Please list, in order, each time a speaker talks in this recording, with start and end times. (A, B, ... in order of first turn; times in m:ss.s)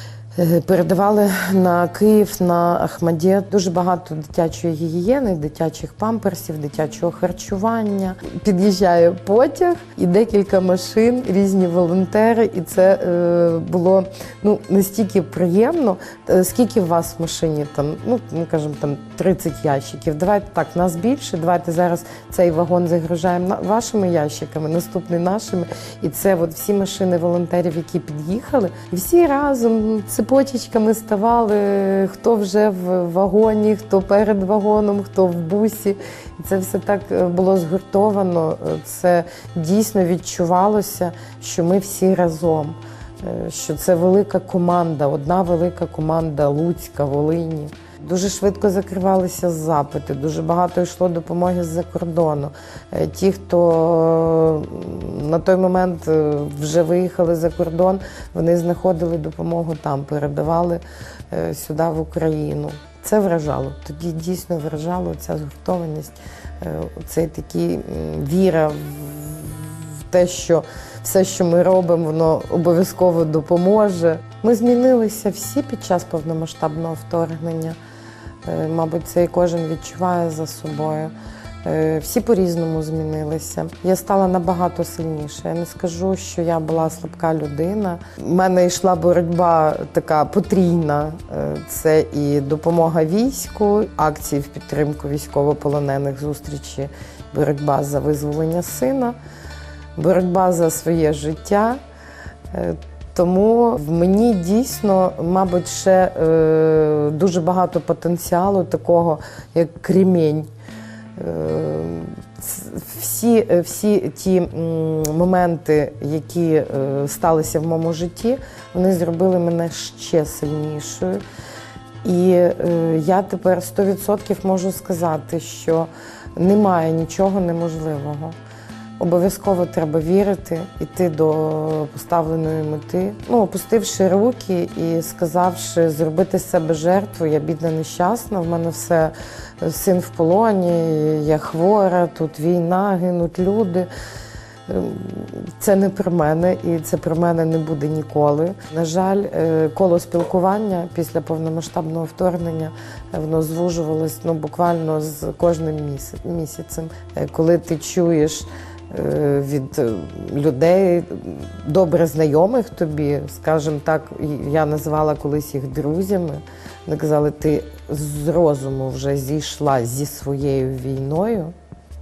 0:00.4-1:17.8 A
1:18.4-1:21.1 A
1:21.6-1:39.2 A
1:40.0-1:41.8 A
1:42.5-1:50.5 A
1:51.2-2:01.2 A
2:02.0-2:08.4 A
2:09.0-2:23.9 A
2:24.7-2:51.5 A